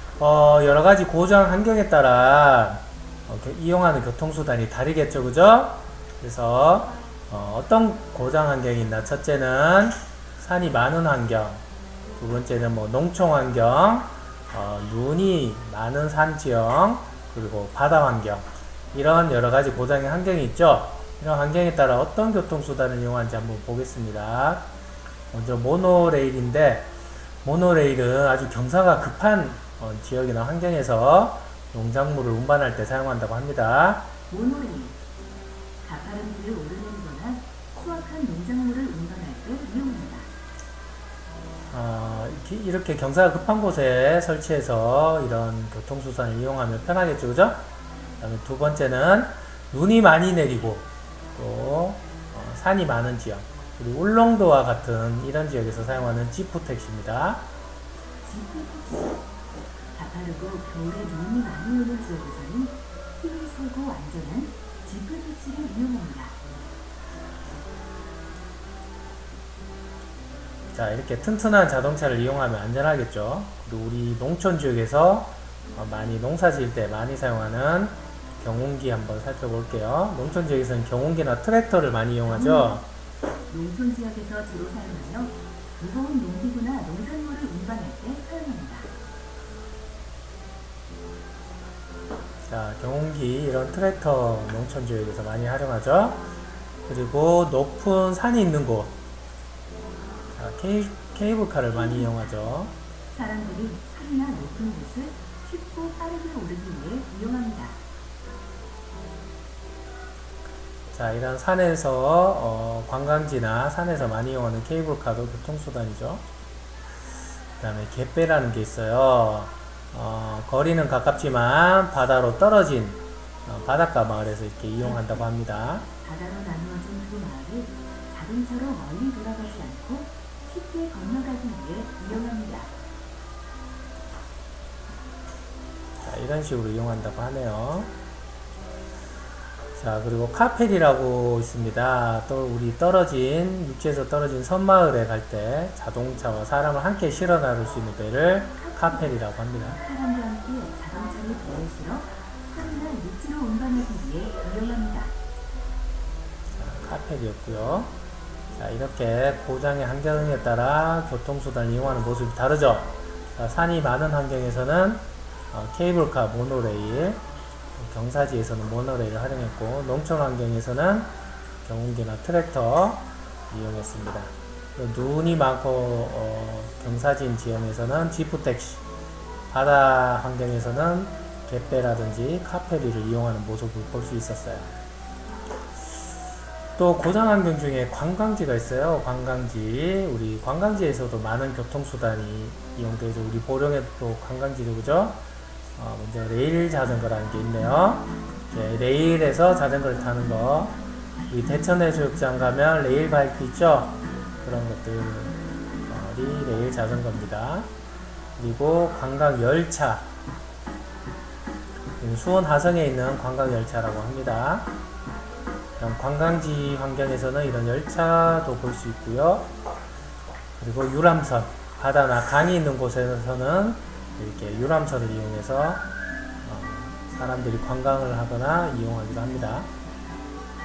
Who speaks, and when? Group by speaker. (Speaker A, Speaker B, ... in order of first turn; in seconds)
Speaker A: 0.2-11.6, 12.2-24.7, 25.3-26.9, 27.4-34.1, 41.7-47.6, 48.2-57.5, 70.7-82.8, 92.5-96.3, 96.9-99.0, 100.3-102.8, 110.9-116.2, 117.6-125.9, 136.0-137.9, 139.8-149.8, 156.6-157.9, 158.5-167.2, 167.8-171.1, 171.6-178.8, 179.5-184.7, 186.8-195.2, 195.8-207.7, 208.4-210.1, 212.0-214.7, 215.8-219.5, 220.6-225.9, 226.4-229.7
Speaker B: 34.3-35.0, 35.8-40.3, 58.2-59.2, 59.9-66.4, 82.3-82.8, 83.5-88.9, 101.7-102.2, 103.1-107.8, 124.8-125.2, 126.0-132.7, 148.6-149.1, 149.7-155.1